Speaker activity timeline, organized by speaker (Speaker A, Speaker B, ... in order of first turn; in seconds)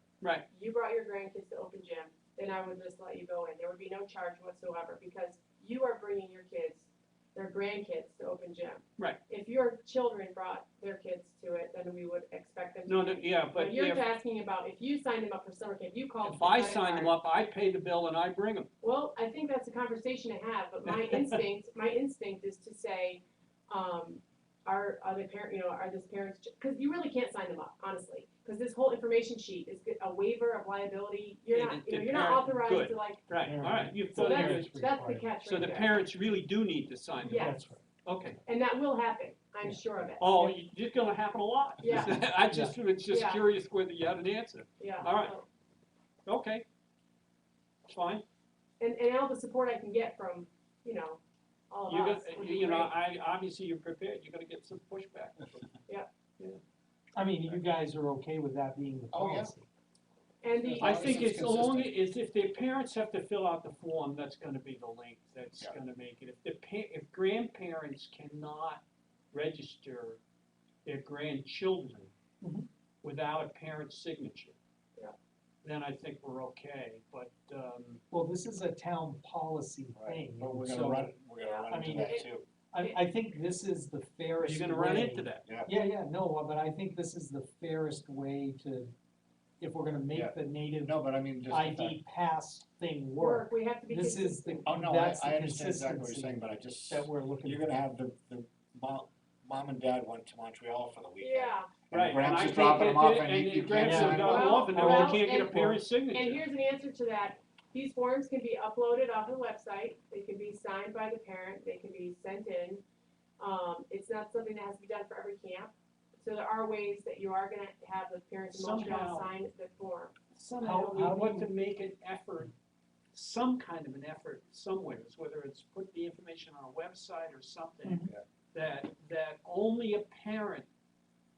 Speaker A: 0.2-0.5, 12.8-14.1, 16.2-18.7, 20.9-21.4, 31.5-34.8, 35.4-37.5, 38.0-38.4, 40.2-45.4, 46.2-46.6, 47.9-48.2, 51.9-55.8, 60.8-70.2, 70.8-72.1, 73.0-74.5, 75.6-78.0, 84.4-85.5, 101.9-106.4, 118.5-119.3, 120.3-122.5, 123.1-130.7
Speaker B: 0.5-17.1, 18.8-33.2, 34.1-36.0, 37.2-37.6, 38.4-40.3, 41.8-42.2, 43.1-43.4, 44.8-45.5, 48.8-52.9, 60.4-61.5, 81.4-82.2, 93.2-94.6, 101.2-101.7, 104.2-112.8, 113.4-120.1
Speaker C: 33.4-35.3, 37.3-37.8, 42.5-42.8, 57.1-59.7, 72.4-72.7, 78.1-81.1, 81.7-82.2, 82.7-88.9, 89.6-90.9, 91.5-97.7, 103.8-105.1, 120.6-121.5, 127.8-128.1
Speaker D: 59.1-59.5, 60.5-61.9, 79.9-82.4, 85.4-85.7, 90.1-92.0, 94.6-104.7